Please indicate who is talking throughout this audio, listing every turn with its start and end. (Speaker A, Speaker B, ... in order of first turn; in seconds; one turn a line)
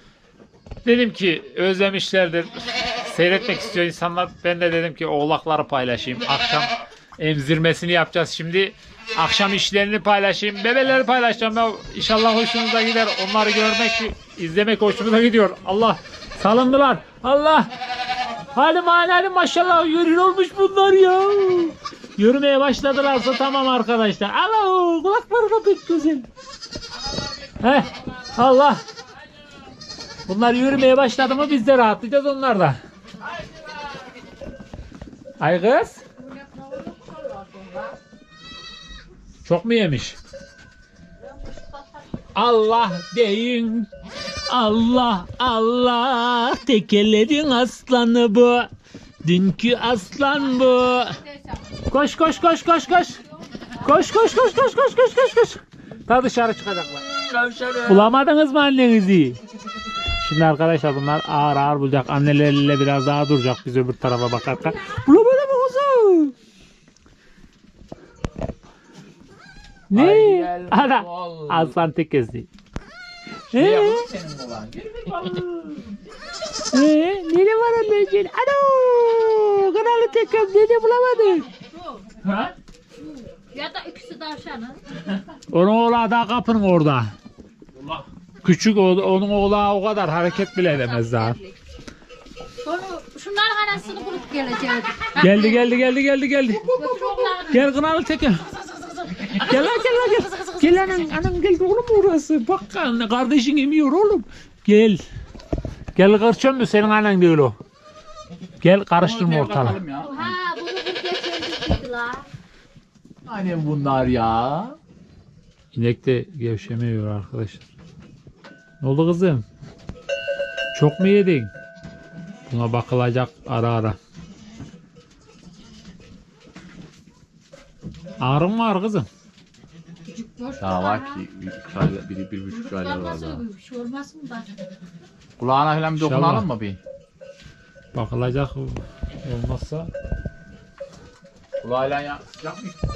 Speaker A: 0.8-17.7
Speaker A: 18.5-26.3
Speaker A: 27.6-28.8
Speaker A: 30.3-32.8
Speaker A: 35.4-36.0
Speaker B: 36.2-38.0
Speaker A: 39.4-40.2
Speaker B: 41.2-42.1
Speaker A: 42.3-43.9
Speaker A: 44.5-48.7
Speaker A: 49.2-51.2
Speaker B: 51.2-51.6
Speaker A: 51.9-53.2
Speaker B: 53.5-54.5
Speaker A: 53.8-57.0
Speaker C: 57.1-58.1
Speaker A: 57.9-59.4
Speaker A: 60.2-66.3
Speaker A: 69.9-72.5
Speaker C: 69.9-71.8
Speaker A: 73.5-74.1
Speaker C: 73.5-75.5
Speaker A: 76.7-81.5
Speaker B: 81.5-82.1
Speaker B: 83.0-84.8
Speaker A: 85.5-87.1
Speaker A: 88.4-91.4
Speaker B: 90.7-91.6
Speaker B: 92.6-95.8
Speaker A: 95.2-96.8
Speaker B: 96.6-97.7
Speaker A: 97.4-98.5
Speaker B: 99.2-101.0
Speaker A: 99.2-105.0
Speaker A: 106.0-107.5
Speaker A: 108.6-109.8
Speaker C: 109.0-110.3
Speaker B: 109.8-112.3
Speaker C: 113.2-114.8
Speaker A: 115.7-117.7
Speaker A: 118.8-119.5
Speaker A: 120.7-121.5
Speaker A: 122.5-124.0
Speaker A: 128.2-129.1
Speaker B: 130.1-131.3
Speaker C: 130.6-133.4
Speaker B: 132.5-134.6
Speaker C: 135.4-136.8
Speaker A: 136.0-136.5
Speaker A: 137.9-139.9
Speaker C: 141.6-142.6